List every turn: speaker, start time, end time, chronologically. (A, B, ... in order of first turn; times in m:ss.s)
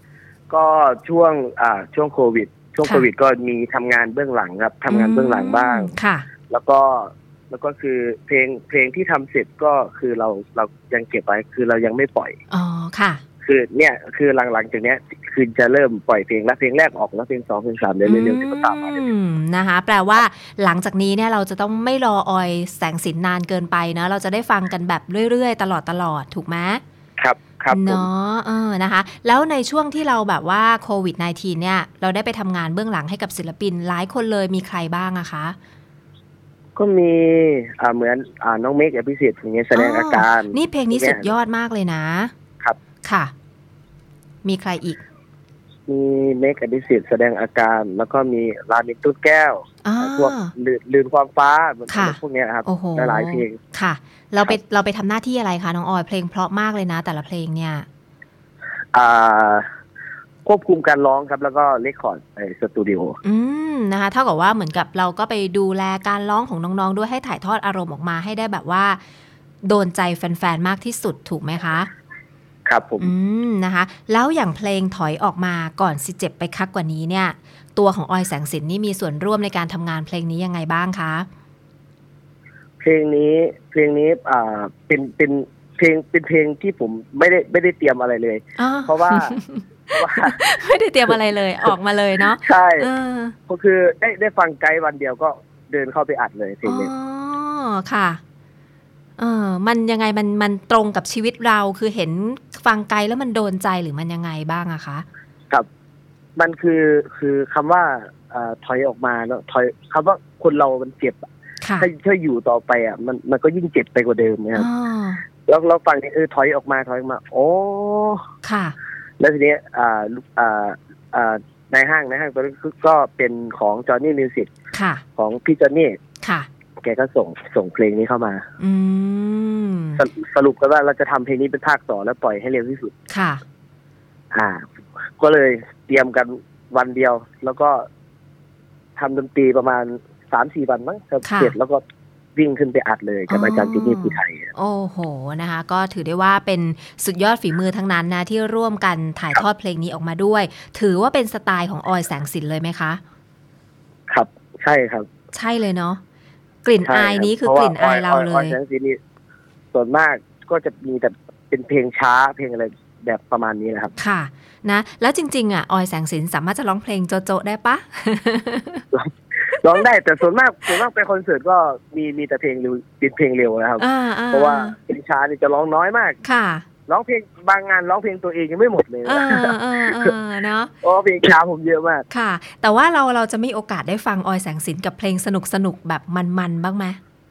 0:00.5-0:05.9 A
0:04.9-0:06.3 B
0:06.5-0:12.4 A
0:12.5-0:13.2 B
0:13.4-0:19.0 A
0:18.0-0:26.8 B
0:27.2-0:28.1 A
0:27.7-0:35.6 B
0:36.8-0:41.3 A
0:39.7-0:42.3 B
0:43.0-0:43.3 B
0:44.4-0:45.0 B
0:45.9-0:53.6 A
0:49.8-0:50.5 B
0:51.9-0:57.9 B
0:58.9-0:59.7 A
1:00.4-1:03.2 A
1:03.2-1:09.0 B
1:09.6-1:11.9 B
1:12.7-1:13.1 A
1:13.0-1:21.3 B
1:22.8-1:29.4 A
1:28.6-1:33.4 B
1:30.0-1:30.4 A
1:32.2-1:32.9 A
1:33.5-1:36.9 A
1:36.6-1:38.2 B
1:39.2-1:45.0 B
1:46.4-1:51.3 A
1:51.6-1:51.9 B
1:51.8-1:54.7 A
1:54.6-1:55.2 B
1:55.4-1:58.2 A
1:58.4-1:58.8 B
1:59.2-2:04.5 A
2:04.7-2:05.0 B
2:05.2-2:06.0 A
2:06.2-2:06.5 B
2:06.8-2:08.4 A
2:08.6-2:10.0 B
2:10.0-2:12.9 A
2:13.1-2:13.4 B
2:14.3-2:17.9 A
2:19.0-2:21.8 A
2:21.2-2:21.5 B
2:22.4-2:24.5 A
2:23.3-2:33.0 B
2:34.1-2:35.1 A
2:35.3-2:36.0 B
2:36.6-2:38.6 B
2:36.9-2:39.0 A
2:39.7-2:43.9 A
2:44.0-2:48.8 B
2:48.9-2:56.2 A
2:53.8-2:54.8 B
2:56.2-2:56.6 B
2:56.9-3:00.1 A
2:59.0-3:00.7 B
3:00.8-3:02.0 A
3:02.1-3:07.0 B